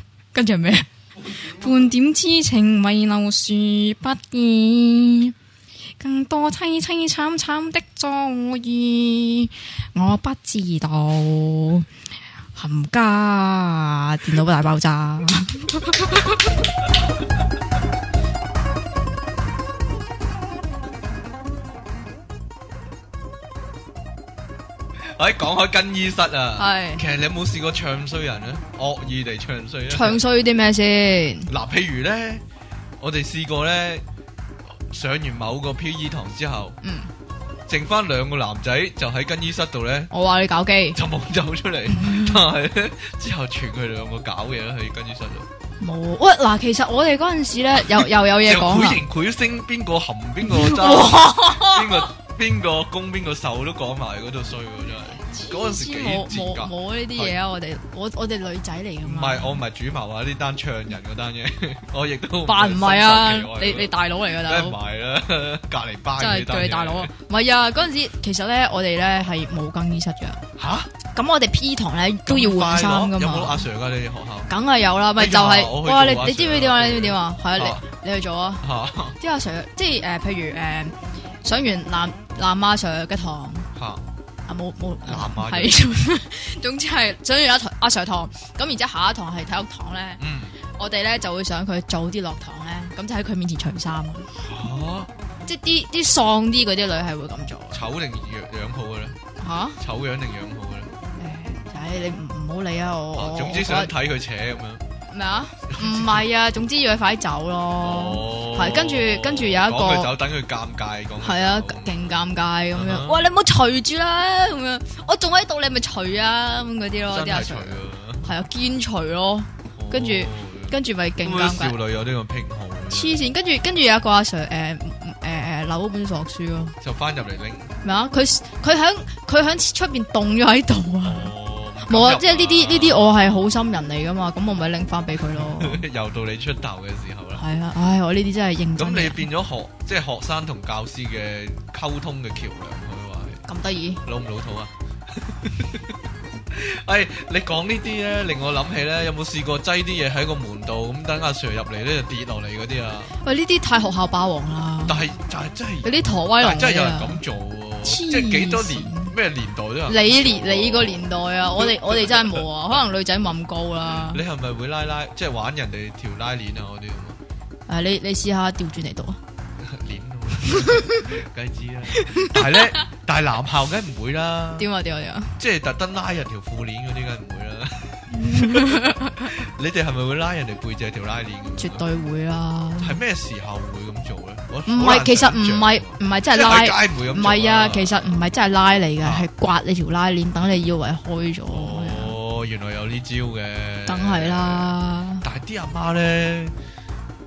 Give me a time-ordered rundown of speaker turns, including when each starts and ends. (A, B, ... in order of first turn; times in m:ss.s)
0:00.3-0:05.4 A
0:06.0-0:11.9 A
0:12.6-0:16.4 A
0:25.0-0:30.2 B
0:26.6-0:27.0 A
0:29.9-0:31.5 A
0:31.5-0:32.4 B
0:33.0-0:34.0 B
0:34.9-0:36.8 B
0:36.8-0:37.1 A
0:37.7-0:40.1 B
0:40.1-0:41.0 A
0:40.9-0:45.5 B
0:41.9-0:42.4 A
0:45.8-0:49.0 A
0:48.0-0:57.4 B
0:50.4-0:52.1 A
0:55.2-0:59.6 A
0:59.0-1:03.9 B
1:02.5-1:04.8 A
1:04.4-1:07.1 B
1:06.2-1:10.4 A
1:10.6-1:10.9 B
1:11.1-1:13.7 A
1:12.3-1:14.5 B
1:14.5-1:18.6 A
1:15.2-1:17.8 B
1:18.6-1:19.2 B
1:19.2-1:23.7 A
1:23.8-1:24.0 B
1:24.5-1:30.2 A
1:25.0-1:25.8 B
1:30.2-1:30.6 B
1:30.8-1:34.3 A
1:34.4-1:35.1 B
1:35.5-1:37.8 A
1:37.7-1:39.2 B
1:39.4-1:39.8 A
1:39.8-1:40.9 B
1:41.2-1:43.9 A
1:43.2-1:44.8 B
1:45.1-1:50.1 A
1:45.7-1:46.2 B
1:47.8-1:53.2 B
1:51.2-2:01.8 A
1:57.1-1:58.3 B
1:59.8-2:03.2 B
2:02.9-2:06.8 A
2:06.8-2:07.7 B
2:07.8-2:11.3 A
2:11.0-2:13.4 B
2:11.8-2:15.8 A
2:15.4-2:17.4 B
2:17.4-2:19.2 A
2:18.8-2:23.4 B
2:23.5-2:24.0 A
2:24.0-2:25.9 B
2:26.5-2:33.2 B
2:33.2-2:35.0 A
2:34.9-2:42.4 B
2:35.8-2:37.2 A
2:37.8-2:39.1 A
2:39.9-2:44.2 A
2:43.9-2:47.2 B
2:47.7-2:49.2 A
2:49.6-2:54.7 B
2:50.4-2:51.0 A
2:51.9-2:52.8 A
2:54.6-2:55.4 A
2:55.4-3:01.8 B
2:58.1-2:59.3 A
3:01.6-3:03.0 A
3:02.8-3:08.3 B
3:04.7-3:12.2 A
3:09.0-3:09.3 B
3:11.5-3:16.6 B
3:13.9-3:15.2 A